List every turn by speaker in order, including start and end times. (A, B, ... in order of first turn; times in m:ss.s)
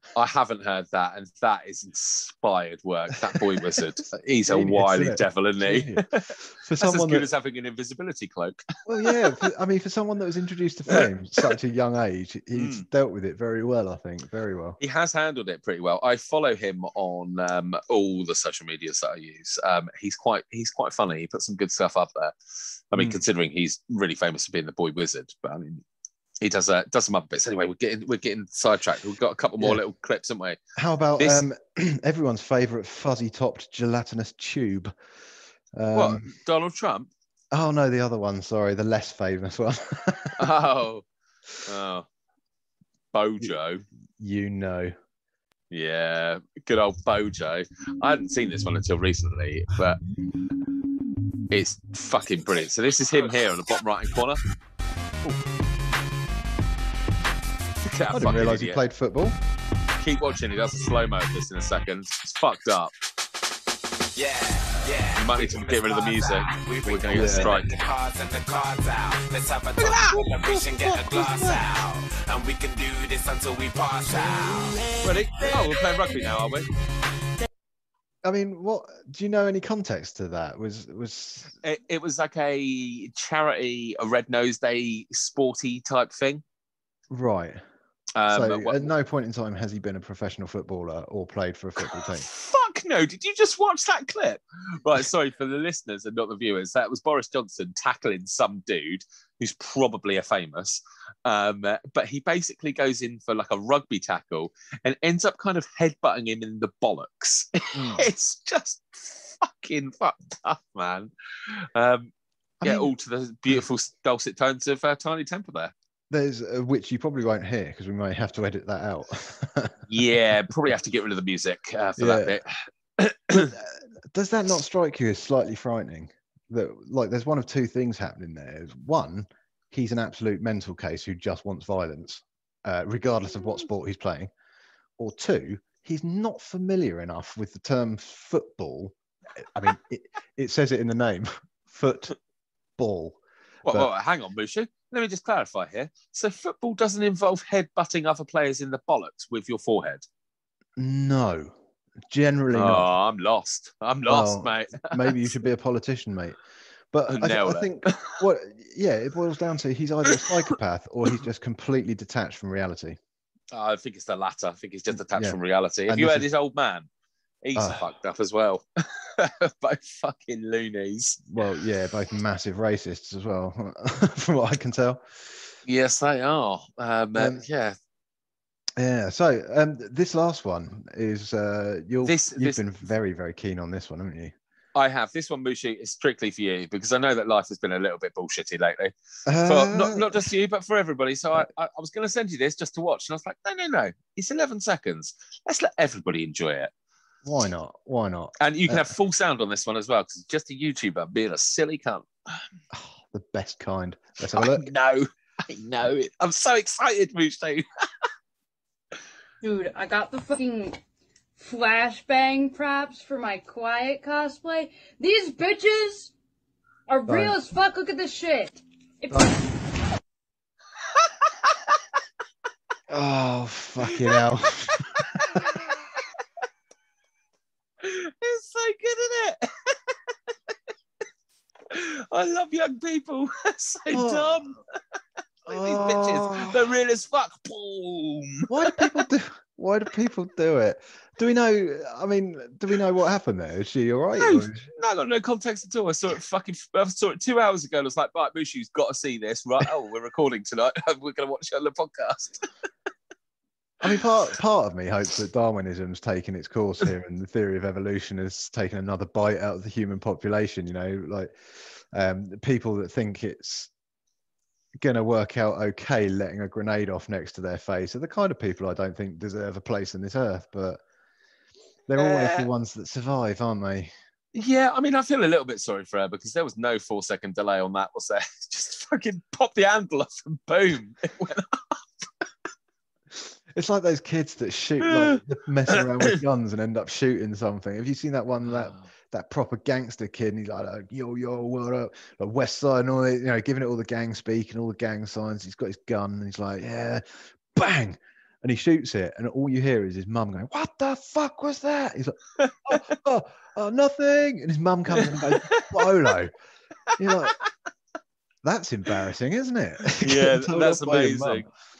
0:00.1-0:09.2 A
0:04.5-0:07.2 B
0:08.9-0:14.8 B
0:10.9-0:11.6 A
0:12.5-0:12.8 A
0:14.8-0:22.3 A
0:22.9-0:25.8 A
0:22.9-0:23.2 B
0:26.4-0:30.6 A
0:30.8-0:34.9 B
0:31.2-0:31.4 A
0:35.7-0:36.3 B
0:35.9-0:37.1 A
0:37.5-0:40.4 B
0:40.4-0:41.0 A
0:41.6-0:42.1 A
0:43.1-0:43.8 A
0:44.2-0:44.9 B
0:45.7-0:50.0 A
0:51.5-0:54.4 A
0:57.8-0:58.8 A
0:58.1-0:59.4 B
1:00.0-1:02.9 A
1:04.2-1:15.0 C
1:05.1-1:07.7 A
1:07.1-1:07.5 B
1:09.8-1:10.2 A
1:10.0-1:11.6 B
1:15.0-1:16.7 A
1:18.2-1:21.5 B
1:21.6-1:26.4 A
1:27.1-1:27.6 B
1:28.2-1:28.9 A
1:28.3-1:32.3 B
1:31.8-1:55.7 A
1:47.7-1:48.0 B
1:52.6-1:52.9 B
1:56.1-2:00.1 B
1:59.9-2:03.5 A
2:02.0-2:02.4 B
2:03.3-2:14.3 B
2:15.0-2:22.1 B
2:22.8-2:23.9 B
2:23.6-2:30.0 A
2:30.8-2:31.6 B
2:32.1-2:32.9 B
2:32.5-2:35.2 A
2:34.1-2:36.4 B
2:36.9-2:43.0 B
2:37.1-2:38.2 A
2:43.5-2:46.9 A
2:45.1-2:46.2 B
2:47.4-2:51.3 A
2:47.6-2:47.8 B
2:51.3-2:55.4 B
2:55.6-2:57.8 A
2:57.2-2:57.4 B
2:58.8-3:04.3 B
3:02.0-3:02.6 A
3:04.7-3:16.7 A
3:09.2-3:10.3 B
3:17.2-3:18.9 B
3:18.4-3:22.4 A
3:22.7-3:24.7 B
3:24.3-3:27.6 A
3:29.4-3:30.8 D
3:31.4-3:36.1 D
3:36.9-3:39.4 D
3:37.1-3:37.4 B
3:42.9-3:45.6 B
3:44.7-3:46.0 A
3:47.8-3:50.5 A
3:51.7-3:54.6 A
3:53.9-3:54.4 B
3:55.4-3:59.0 A
3:55.5-3:56.6 B
3:58.5-4:04.7 B
4:04.2-4:12.5 A
4:13.8-4:23.7 B
4:24.8-4:30.8 B
4:31.9-4:33.9 B
4:32.0-4:32.5 A
4:34.3-4:41.8 A
4:43.5-5:06.3 B
4:44.8-4:46.2 A
5:02.4-5:02.8 A
5:05.0-5:05.9 A
5:06.9-5:07.4 A
5:07.0-5:07.4 B
5:08.4-5:11.5 B
5:10.0-5:11.5 A